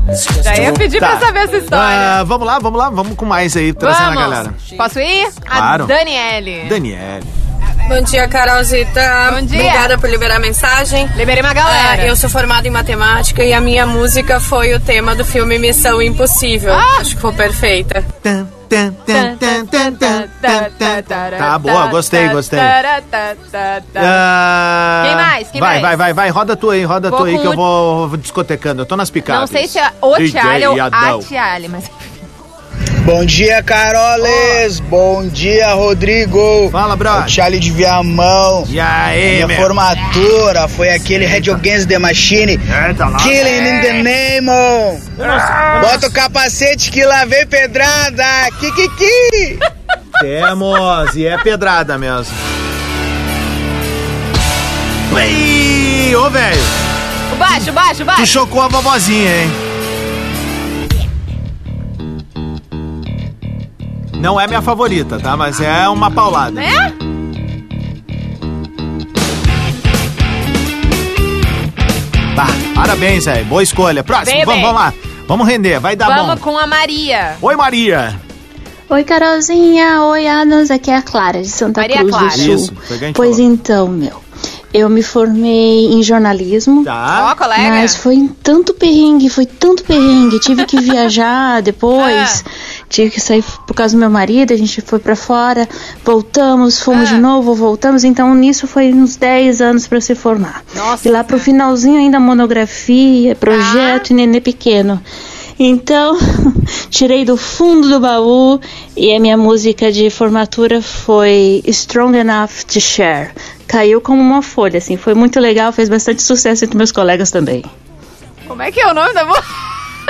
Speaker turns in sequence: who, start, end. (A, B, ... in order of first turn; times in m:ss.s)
0:00.4-0:02.2 A
0:00.7-0:04.6 B
0:03.8-0:06.8 A
0:05.5-0:06.0 B
0:06.6-0:07.3 B
0:07.9-0:11.1 C
0:09.2-0:10.0 A
0:11.1-0:12.2 A
0:11.6-0:18.0 C
0:16.7-0:17.2 A
0:18.2-0:22.8 B
0:19.1-0:24.2 A
0:24.0-0:31.3 B
0:25.0-0:26.0 A
0:27.1-0:27.6 A
0:29.2-0:32.2 A
0:33.0-0:38.7 D
0:34.2-0:34.6 B
0:36.7-0:37.4 B
0:38.7-0:39.8 B
0:39.3-0:45.1 D
0:41.2-0:41.6 B
0:42.7-0:43.6 B
0:43.4-0:44.1 A
0:45.2-0:46.2 B
0:45.7-0:49.6 D
0:50.2-0:52.4 B
0:55.1-0:56.7 B
0:57.3-0:58.3 A
0:58.1-0:59.6 B
1:04.2-1:06.7 B
1:06.5-1:06.9 A
1:12.3-1:16.4 B
1:14.2-1:14.8 A
1:16.0-1:17.4 A
1:17.4-1:18.2 B
1:18.9-1:26.9 E
1:21.8-1:22.6 A
1:22.3-1:23.4 B
1:26.8-1:27.4 B
1:27.1-1:28.0 A
1:27.6-1:45.0 E
1:32.0-1:32.4 A
1:36.9-1:37.2 A
1:40.7-1:41.5 A
1:43.5-1:44.1 A
1:45.6-1:57.7 E
1:58.5-1:59.4 A